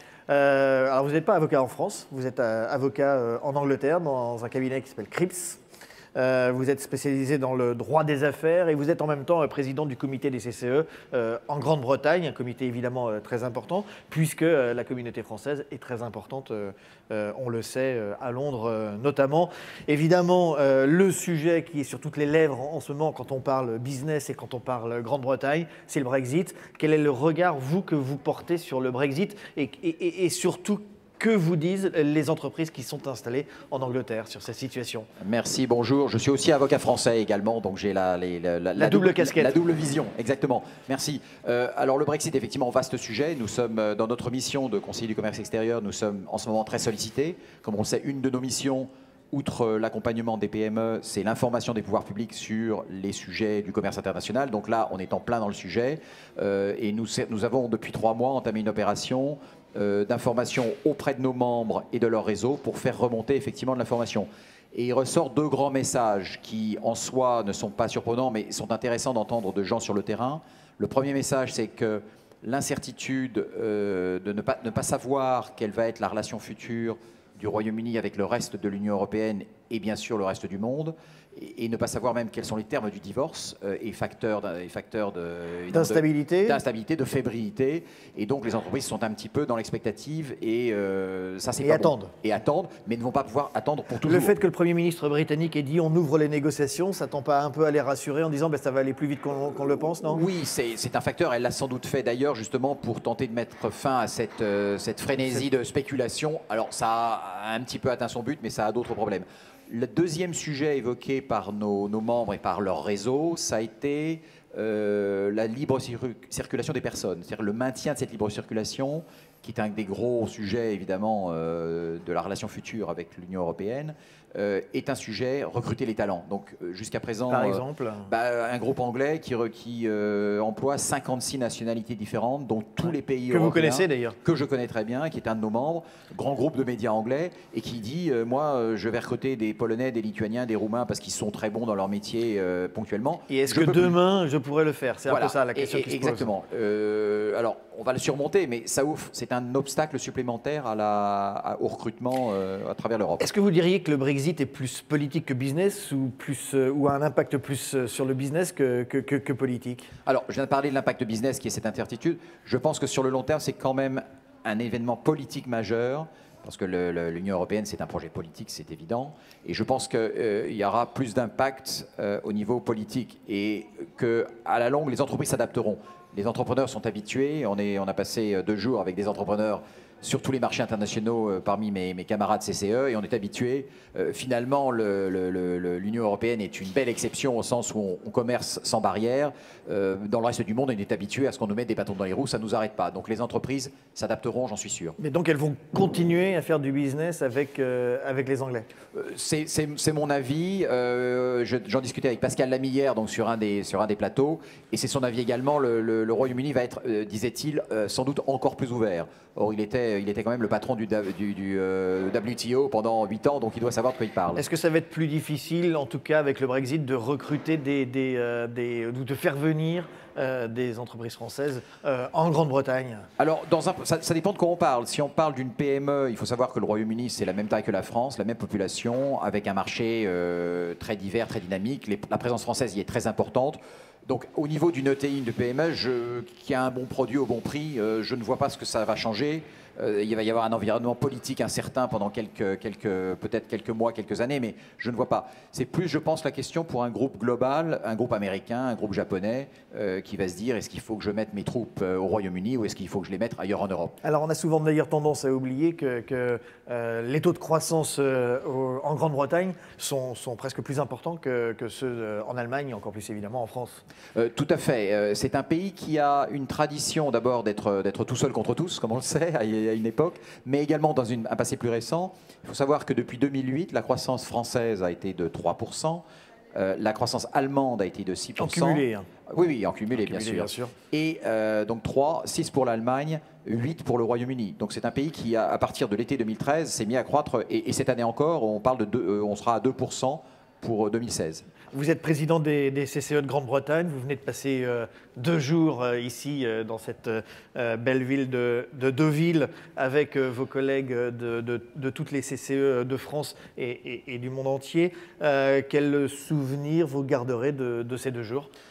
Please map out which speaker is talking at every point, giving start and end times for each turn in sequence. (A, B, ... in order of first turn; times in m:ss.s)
0:00.3-0:05.6 A
0:06.2-0:35.1 A
0:35.2-1:34.3 B
0:38.8-0:39.5 A
1:25.7-1:26.6 A
1:31.6-1:32.1 A
1:34.0-1:40.2 A
1:40.0-2:24.0 B
2:07.3-2:08.1 A
2:13.3-2:14.2 A
2:23.3-2:26.3 A
2:25.1-2:33.2 B
2:33.2-2:39.9 A
2:40.0-3:15.0 B
3:15.0-3:18.7 A
3:18.9-3:34.4 B
3:34.3-3:43.0 A
3:43.2-4:14.0 B
4:14.0-4:23.8 A
4:24.1-4:36.0 B
4:36.6-4:51.4 B
4:38.4-4:39.1 A
4:39.9-4:40.7 A
4:51.7-5:08.5 A